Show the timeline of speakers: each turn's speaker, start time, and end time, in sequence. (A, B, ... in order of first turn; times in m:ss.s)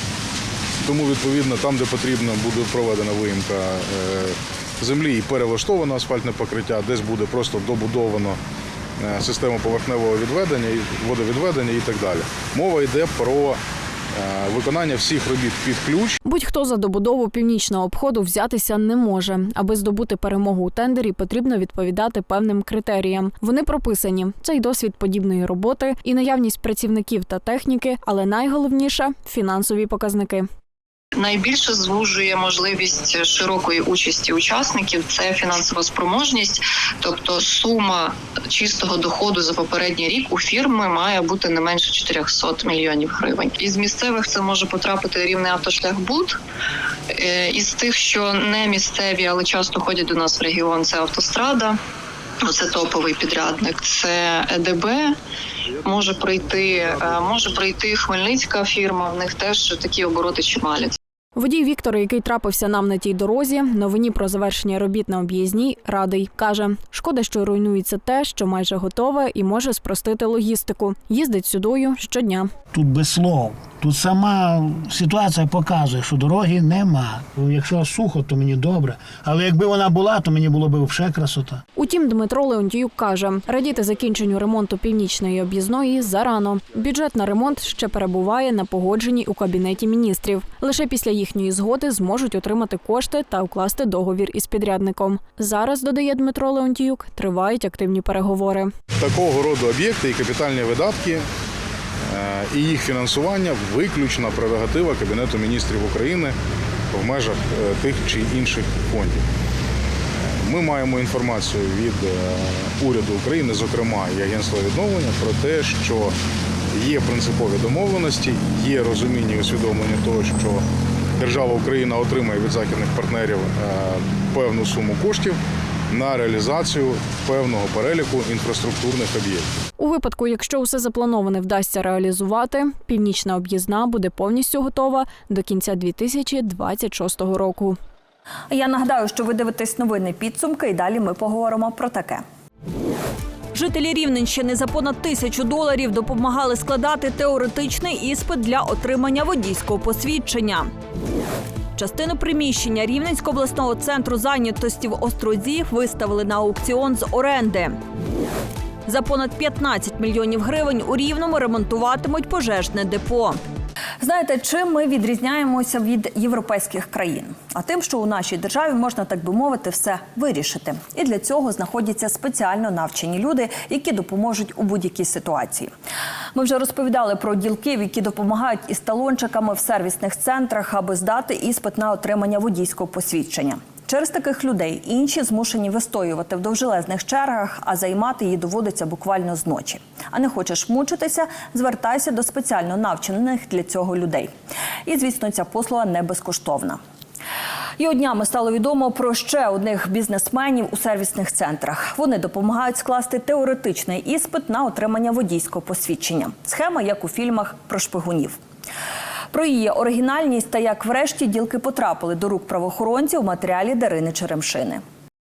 0:00.8-0:08.4 A
0:09.0-0:13.6 A
0:14.1-0:16.2 A
0:16.2-0:30.5 B
0:31.2-0:46.4 C
0:47.1-0:51.8 C
0:52.4-0:55.1 C
0:55.8-1:01.0 C
1:01.4-1:12.5 B
1:12.7-1:21.6 D
1:21.8-1:38.7 B
1:39.0-1:41.2 A
1:42.1-1:46.3 A
1:46.9-1:49.2 A
1:50.2-1:56.1 A
1:56.7-2:00.6 A
2:01.2-2:05.4 A
2:05.9-2:09.5 A
2:09.8-2:17.8 B
2:18.5-2:22.2 E
2:23.5-2:30.7 E
2:31.8-2:37.8 E
2:38.8-2:43.4 E
2:44.0-2:55.7 E
2:56.3-3:14.3 E
3:14.8-3:16.8 E
3:17.8-3:28.4 E
3:29.3-3:34.8 E